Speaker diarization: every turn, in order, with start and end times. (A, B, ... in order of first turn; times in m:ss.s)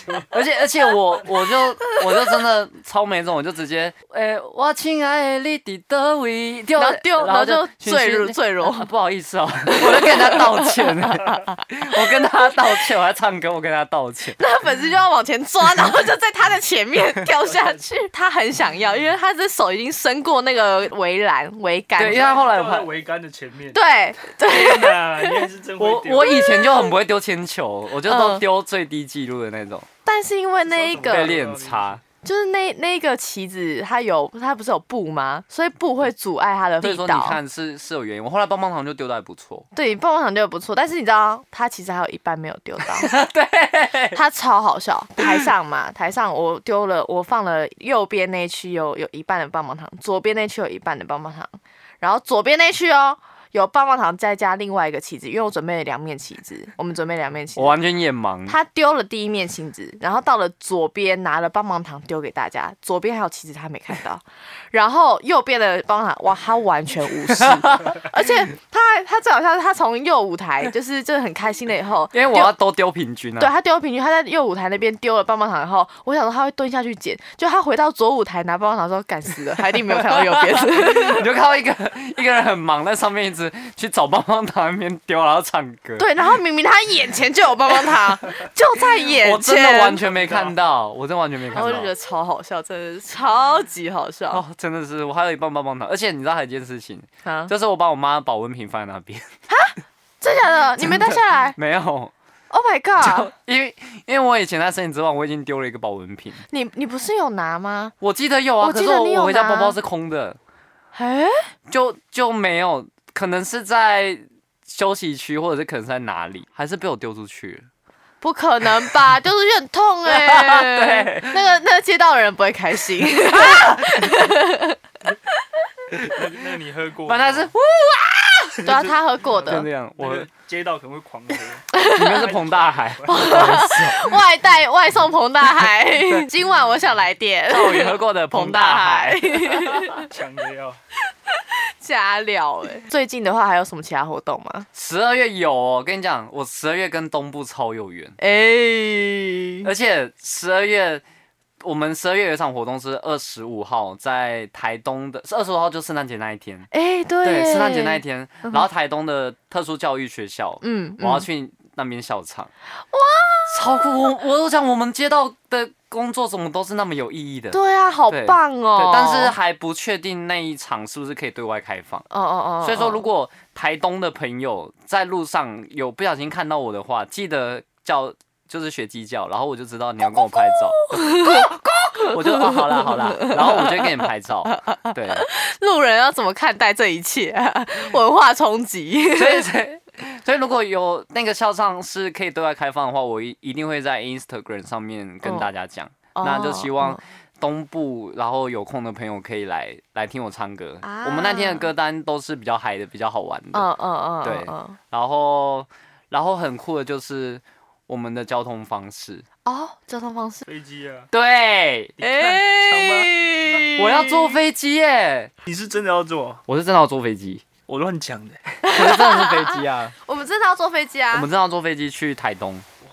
0:00.2-0:14.4 A
0:01.6-0:02.4 B
0:06.8-0:08.9 B
0:09.6-0:11.6 B
0:12.2-0:12.4 B
0:14.4-0:22.4 B
0:22.0-0:22.9 A
0:22.0-0:23.8 C
0:23.7-0:25.4 B
0:24.4-0:26.5 C
0:25.8-0:29.9 A
0:26.2-0:26.9 B
0:28.0-0:28.4 B
0:30.0-0:31.4 B
0:30.6-0:32.0 C
0:31.0-0:32.0 A
0:32.2-0:37.4 B
0:36.8-0:39.7 A
0:39.7-0:43.1 B
0:42.9-0:44.2 A
0:44.1-0:57.8 B
0:57.6-0:58.6 A
0:58.5-1:12.5 B
1:07.4-1:07.9 A
1:12.1-1:13.5 A
1:13.4-1:21.2 B
1:19.9-1:26.1 A
1:26.0-1:30.0 B
1:29.0-1:31.9 A
1:30.1-1:30.5 C
1:31.5-1:34.4 B
1:34.3-1:39.3 A
1:37.2-1:37.5 B
1:39.5-1:41.6 B
1:40.8-1:42.1 A
1:42.5-1:43.3 B
1:43.0-1:46.4 A
1:46.5-1:47.9 B
1:48.0-1:50.4 A
1:48.6-1:49.8 B
1:50.9-1:51.5 B
1:51.7-1:57.7 A
1:58.2-2:04.8 B
2:00.0-2:01.4 A
2:03.2-2:04.2 A
2:06.0-2:07.5 C
2:07.0-2:08.7 A
2:08.6-2:09.7 B
2:08.6-2:13.8 C
2:09.4-2:10.3 A
2:11.7-2:12.1 B
2:11.9-2:14.2 A
2:13.1-2:20.1 B
2:17.5-2:19.9 A
2:20.0-2:20.8 C
2:21.2-2:24.7 B
2:24.7-2:28.2 A
2:28.2-2:29.7 B
2:29.6-2:31.0 A
2:31.6-2:36.7 A
2:36.7-2:38.6 B
2:37.2-2:42.5 A
2:40.6-2:41.3 B
2:42.9-2:43.8 B
2:43.5-2:52.1 A
2:47.5-2:49.4 B
2:52.1-2:53.0 B
2:52.6-3:05.3 A
3:00.0-3:09.5 B
3:09.1-3:23.7 A
3:15.2-3:15.5 B
3:16.1-3:17.0 B
3:20.8-3:21.7 B
3:23.5-3:24.8 B
3:24.2-3:29.2 A
3:29.4-3:30.4 B
3:30.4-3:31.1 C
3:31.1-3:32.0 A
3:32.0-3:33.7 C
3:32.0-3:34.4 B
3:33.8-3:35.3 A
3:35.4-3:36.4 C
3:36.5-3:37.4 A
3:37.7-3:38.6 C
3:38.6-3:41.3 B
3:38.7-3:39.9 A
3:41.1-3:42.6 A